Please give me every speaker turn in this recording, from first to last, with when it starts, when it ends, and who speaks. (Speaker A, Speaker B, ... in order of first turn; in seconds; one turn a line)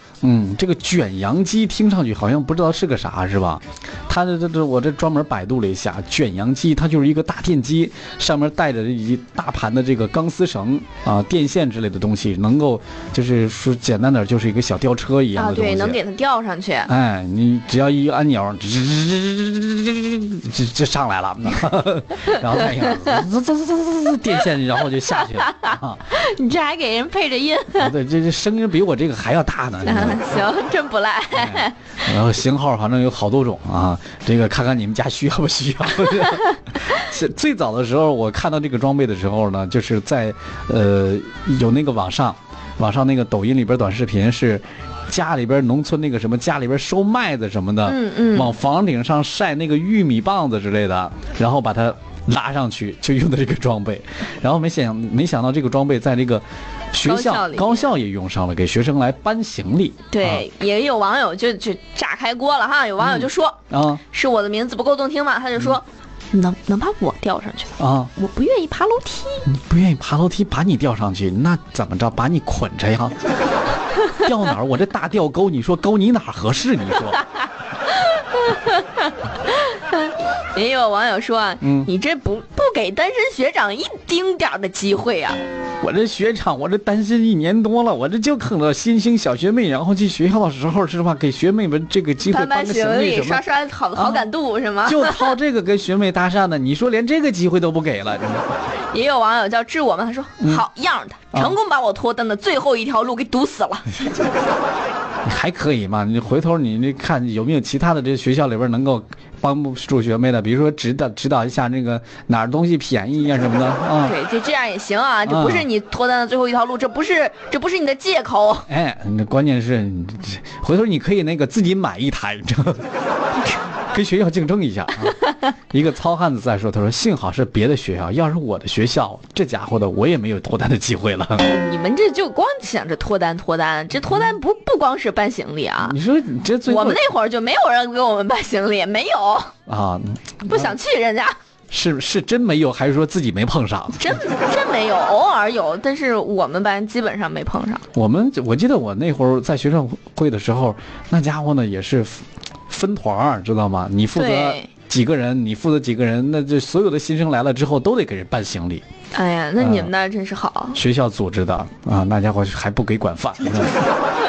Speaker A: 0.2-16.0
Speaker B: 15.3-16.9
Speaker A: 16.9-26.0
Speaker B: 22.3-23.2
Speaker B: 25.3-27.9
Speaker A: 27.8-30.2
Speaker B: 29.8-31.8
Speaker A: 31.3-60.4
Speaker B: 36.2-36.4
Speaker B: 47.9-48.5
Speaker B: 57.0-57.9
Speaker B: 60.1-69.5
Speaker A: 63.0-64.0
Speaker A: 67.8-68.1
Speaker A: 69.5-73.2
Speaker A: 74.1-77.2
Speaker B: 77.9-85.4
Speaker A: 81.6-81.9
Speaker A: 85.8-94.3
Speaker B: 92.3-95.4
Speaker A: 94.8-98.5
Speaker B: 98.9-103.9
Speaker A: 105.3-114.2
Speaker B: 114.0-118.7
Speaker A: 115.3-115.7
Speaker A: 118.7-122.8
Speaker A: 123.9-131.5
Speaker B: 131.4-136.0
Speaker A: 135.8-137.0
Speaker B: 136.7-139.5
Speaker A: 139.7-140.8
Speaker B: 140.5-141.3
Speaker A: 141.7-144.2
Speaker B: 144.0-147.9
Speaker A: 147.9-158.8
Speaker B: 154.2-154.7
Speaker B: 159.1-160.8
Speaker A: 159.6-159.9
Speaker A: 160.8-163.9